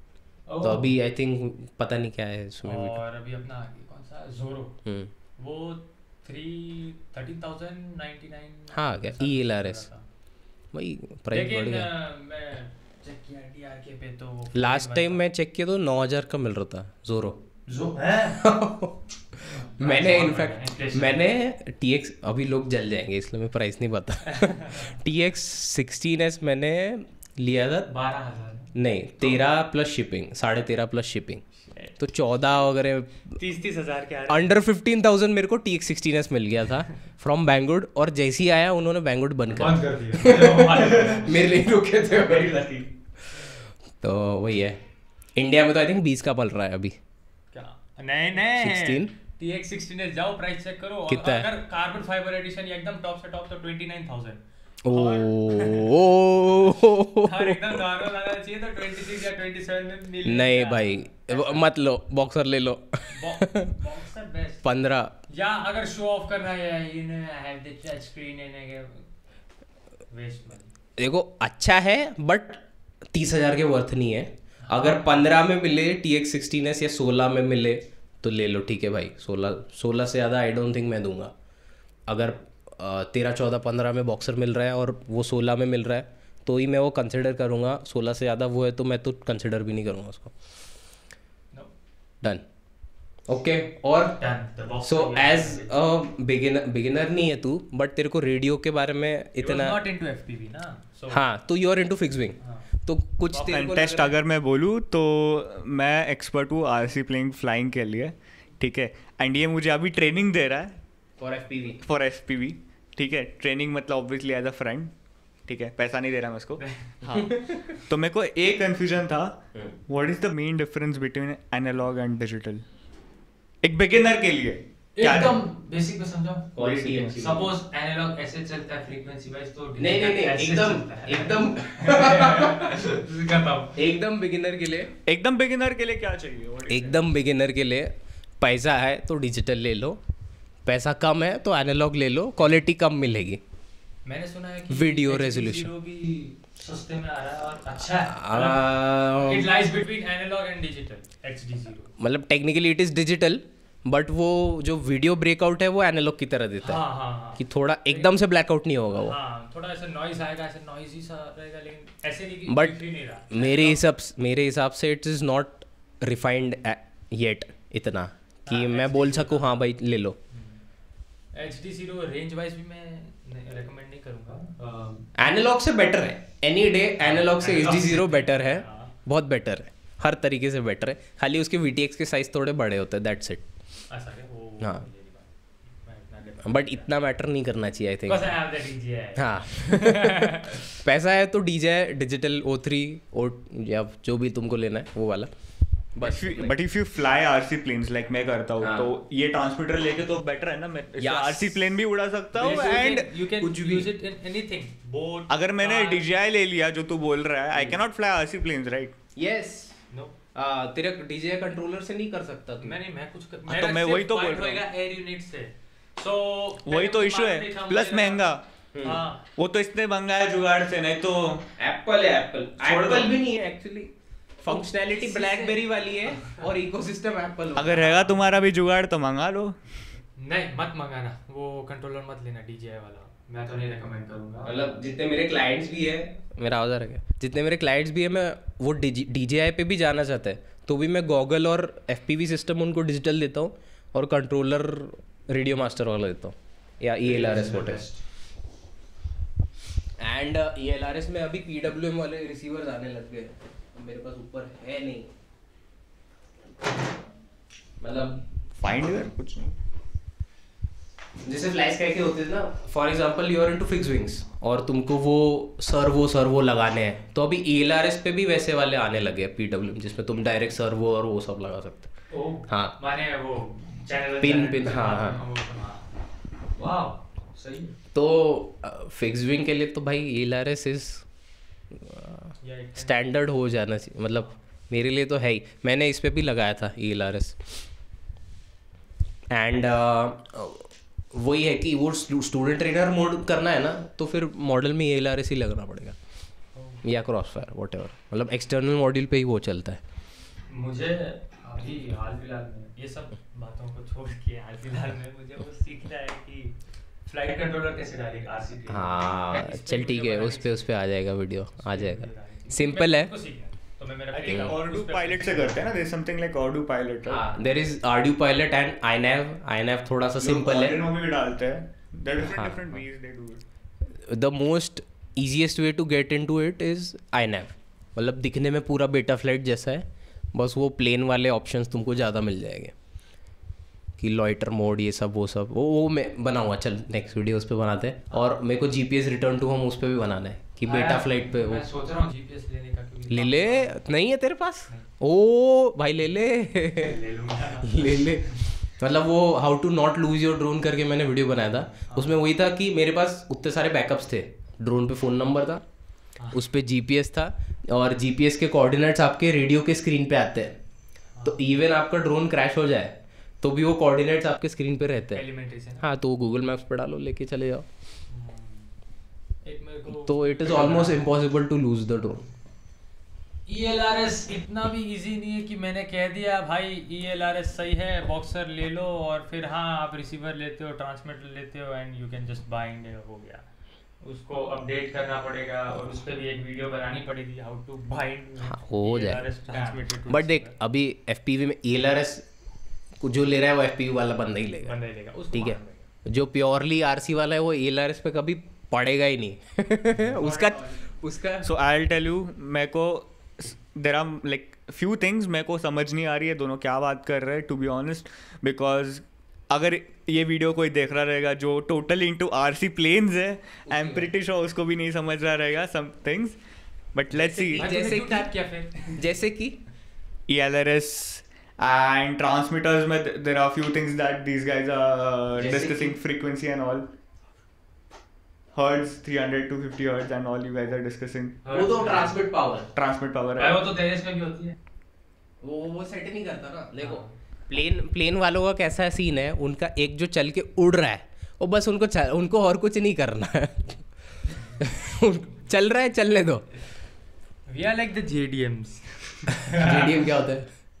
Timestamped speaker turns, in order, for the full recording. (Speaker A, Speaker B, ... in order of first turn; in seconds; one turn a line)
Speaker A: 0.5-0.9
Speaker B: 0.6-3.0
Speaker A: 2.6-4.8
Speaker B: 4.8-5.1
Speaker A: 5.4-10.0
Speaker B: 8.7-9.8
Speaker B: 10.7-11.9
Speaker A: 11.3-15.2
Speaker B: 14.5-17.4
Speaker A: 17.7-18.5
Speaker B: 18.4-27.9
Speaker A: 19.4-21.2
Speaker A: 24.3-25.0
Speaker A: 27.9-29.4
Speaker B: 28.7-31.4
Speaker A: 31.6-31.9
Speaker B: 32.0-33.4
Speaker A: 33.4-34.5
Speaker B: 34.3-42.6
Speaker A: 39.5-41.4
Speaker C: 42.1-42.9
Speaker B: 43.3-44.8
Speaker B: 45.4-47.0
Speaker A: 47.5-61.7
Speaker B: 48.4-49.1
Speaker B: 51.1-51.5
Speaker B: 54.8-57.8
Speaker B: 60.2-63.8
Speaker A: 63.1-64.6
Speaker B: 64.6-65.1
Speaker A: 65.3-69.0
Speaker A: 70.1-70.7
Speaker B: 71.0-81.3
Speaker A: 74.7-75.2
Speaker B: 82.1-90.3
Speaker B: 93.3-94.2
Speaker A: 94.1-95.7
Speaker B: 94.8-99.8
Speaker A: 99.4-101.2
Speaker B: 101.1-104.1
Speaker A: 102.4-102.7
Speaker A: 103.3-103.8
Speaker C: 103.4-110.8
Speaker B: 111.2-111.8
Speaker C: 111.8-114.9
Speaker C: 115.5-122.6
Speaker A: 116.6-117.3
Speaker B: 117.2-117.5
Speaker C: 123.6-125.4
Speaker A: 125.0-126.5
Speaker B: 126.5-127.5
Speaker C: 126.6-127.2
Speaker A: 127.1-133.8
Speaker B: 129.8-132.8
Speaker B: 133.7-134.9
Speaker C: 135.1-137.1
Speaker B: 136.7-140.0
Speaker B: 140.7-143.4
Speaker A: 144.1-151.9
Speaker B: 144.7-145.7
Speaker B: 148.1-149.5
Speaker B: 152.0-156.8
Speaker A: 156.6-158.1
Speaker B: 157.3-159.2
Speaker A: 158.9-163.8
Speaker B: 162.5-170.2
Speaker A: 168.4-169.5
Speaker A: 170.3-170.6
Speaker A: 171.3-175.1
Speaker B: 175.2-183.4
Speaker A: 177.0-178.9
Speaker A: 183.9-186.9
Speaker B: 184.6-184.8
Speaker B: 186.4-188.3
Speaker A: 188.1-190.7
Speaker B: 189.2-195.3
Speaker B: 195.9-196.6
Speaker C: 196.0-203.1
Speaker B: 198.6-198.9
Speaker B: 201.0-201.6
Speaker B: 202.3-203.9
Speaker A: 202.4-206.1
Speaker C: 205.3-208.9
Speaker B: 209.2-209.8
Speaker A: 209.9-210.2
Speaker B: 210.3-212.8
Speaker A: 212.6-218.3
Speaker C: 213.5-214.6
Speaker C: 216.7-218.4
Speaker B: 218.7-219.0
Speaker A: 218.8-219.2
Speaker C: 219.4-221.5
Speaker B: 221.6-227.8
Speaker C: 222.6-223.1
Speaker A: 224.8-226.4
Speaker C: 227.5-229.6
Speaker A: 227.7-228.3
Speaker A: 230.2-234.6
Speaker B: 234.4-247.8
Speaker A: 247.0-248.0
Speaker B: 250.0-255.1
Speaker B: 257.8-258.2
Speaker C: 258.6-259.5
Speaker B: 261.2-271.9
Speaker A: 272.1-275.9
Speaker B: 272.5-272.7
Speaker B: 274.2-275.2
Speaker A: 276.6-277.7
Speaker B: 277.9-281.0
Speaker B: 281.7-287.6
Speaker A: 282.4-283.1
Speaker B: 289.3-296.0
Speaker A: 296.5-296.8
Speaker B: 296.8-299.8
Speaker A: 300.5-310.6
Speaker B: 308.7-313.1
Speaker A: 311.6-315.8
Speaker C: 314.1-317.2
Speaker B: 314.2-314.6
Speaker B: 317.1-320.8
Speaker C: 320.2-323.4
Speaker B: 322.2-322.6
Speaker B: 323.9-332.7
Speaker B: 334.0-341.6
Speaker A: 340.6-343.8
Speaker B: 343.1-347.0
Speaker A: 346.8-348.4
Speaker B: 347.6-355.6
Speaker A: 351.9-352.2
Speaker B: 356.3-360.6
Speaker A: 361.1-361.4
Speaker B: 361.2-365.2
Speaker A: 365.1-365.8
Speaker B: 365.8-367.6
Speaker A: 368.1-368.8
Speaker A: 369.4-371.1
Speaker B: 369.9-372.2
Speaker A: 373.5-383.4
Speaker A: 384.0-390.6
Speaker B: 388.4-389.3
Speaker B: 390.1-392.2
Speaker B: 393.0-394.8
Speaker A: 394.6-395.8
Speaker B: 395.3-401.5
Speaker A: 400.0-400.9
Speaker C: 401.4-416.4
Speaker B: 413.7-414.1
Speaker C: 416.9-417.7
Speaker A: 417.1-419.0
Speaker B: 417.4-418.3
Speaker B: 418.9-419.6
Speaker C: 420.3-426.9
Speaker B: 425.4-425.9
Speaker C: 428.5-431.4
Speaker A: 431.4-432.2
Speaker B: 431.5-432.7
Speaker C: 432.7-433.6
Speaker A: 433.4-434.6
Speaker B: 435.4-443.8
Speaker A: 436.8-437.1
Speaker A: 444.3-444.6
Speaker B: 444.6-446.4
Speaker A: 447.5-450.1
Speaker B: 449.5-450.5